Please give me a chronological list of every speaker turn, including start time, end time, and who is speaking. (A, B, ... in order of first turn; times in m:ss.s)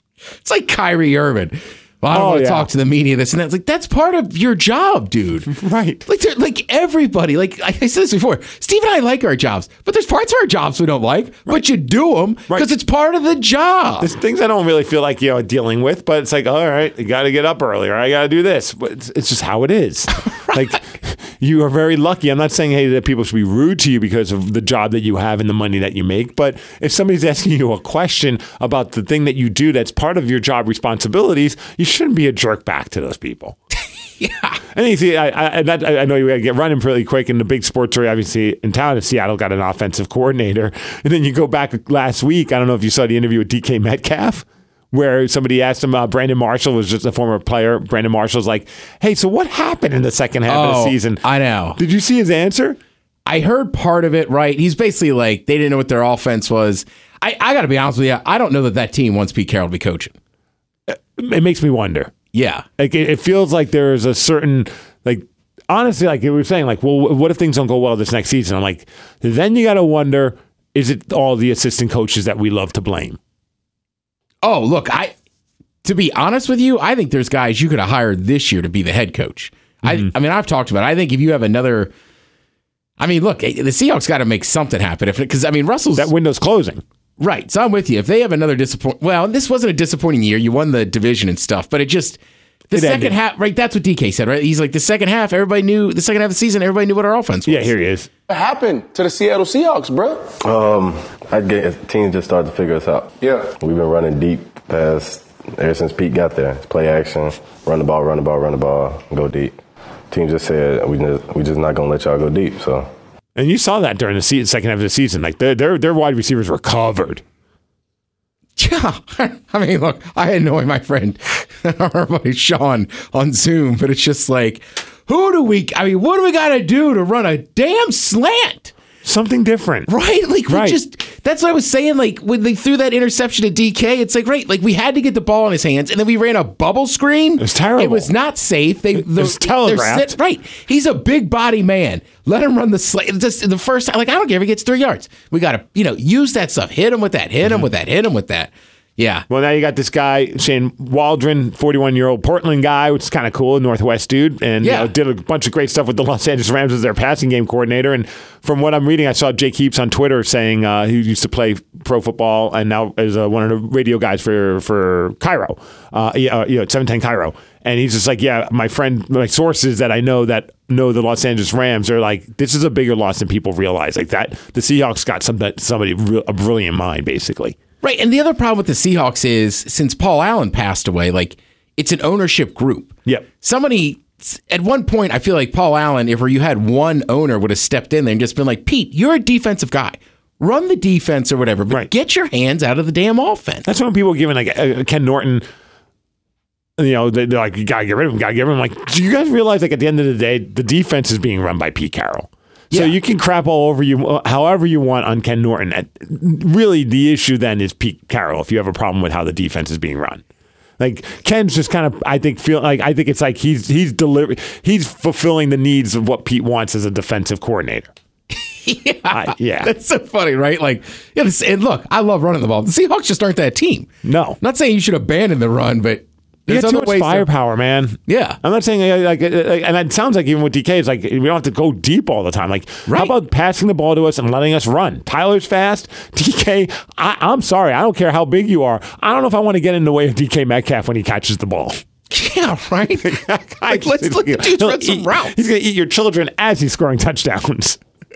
0:00.4-0:05.5 A
0:02.1-0:02.7 B
0:05.5-0:06.0 B
0:06.1-0:14.1 A
0:14.0-0:33.6 B
0:20.3-0:20.8 A
0:34.2-0:34.6 A
0:34.7-0:51.2 B
0:50.5-0:51.8 A
0:51.8-0:52.8 B
0:53.3-1:00.2 A
1:00.9-1:02.1 B
1:02.3-1:02.7 A
1:02.8-1:13.2 B
1:14.4-1:15.1 A
1:15.8-1:21.9 A
1:23.0-1:26.1 A
1:26.0-1:26.8 B
1:27.2-1:32.2 A
1:32.7-1:37.7 A
1:32.7-1:33.2 B
1:37.5-1:38.1 B
1:38.3-1:40.3 C
1:40.4-1:49.6 D
1:43.2-1:43.5 C
1:50.1-1:52.9 D
1:53.4-1:57.2 B
1:58.6-2:08.7 A
2:09.0-2:09.9 B
2:09.9-2:29.2 A
2:10.5-2:10.8 B
2:17.4-2:18.1 B
2:19.0-2:20.2 B
2:29.3-2:57.6 B
2:34.6-2:34.9 A
2:57.8-3:13.6 A
3:13.7-3:15.4 B
3:16.8-3:30.2 B
3:22.7-3:23.0 A
3:30.8-3:37.9 B
3:38.3-3:47.3 A
3:39.1-3:39.7 B
3:44.0-3:44.4 B
3:46.5-4:01.8 B
3:48.1-3:48.4 A
3:52.9-3:53.1 A
4:02.1-4:05.4 A
4:03.0-4:07.8 B